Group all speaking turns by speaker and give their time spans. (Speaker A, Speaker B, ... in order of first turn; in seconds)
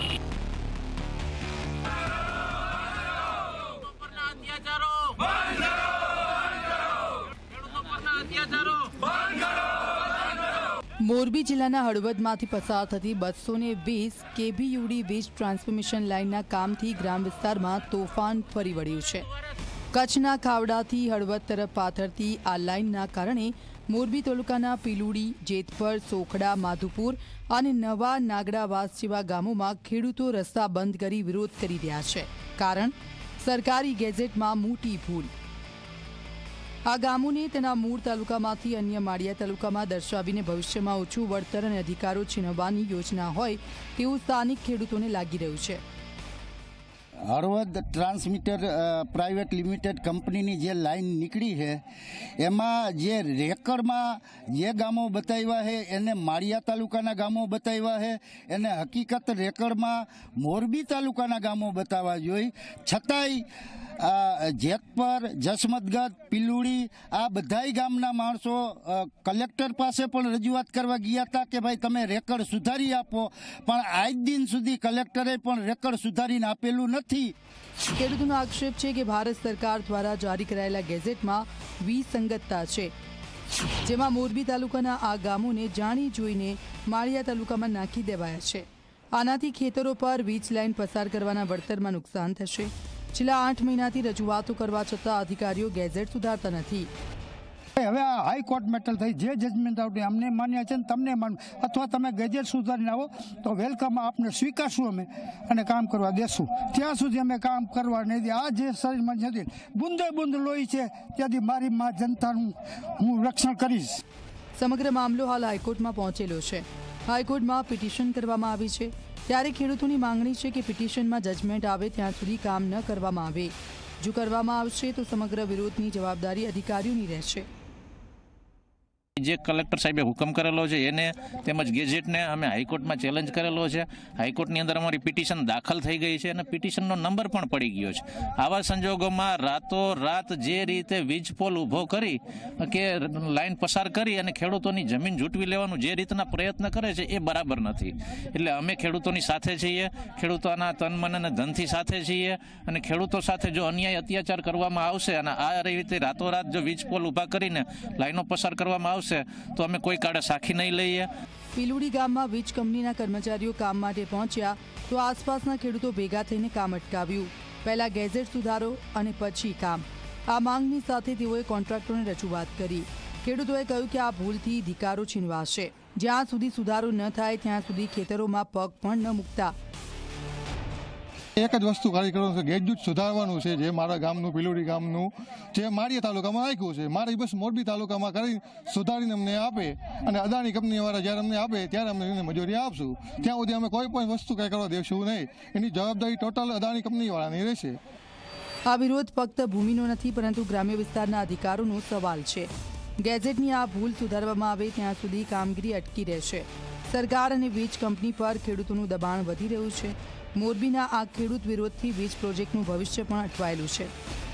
Speaker A: 4.0-5.2, 7.7-9.0, 129.2-161.1
Speaker B: 11.0-19.2, 19.9-35.3, 36.9-45.8, 77.9-82.9, 83.8-88.6, 89.2-96.9, 114.6-127.5, 161.6-179.5, 198.7-213.9
Speaker C: 47.3-51.8, 52.4-63.4, 64.0-77.3
Speaker D: 97.8-113.9
Speaker E: 181.4-197.8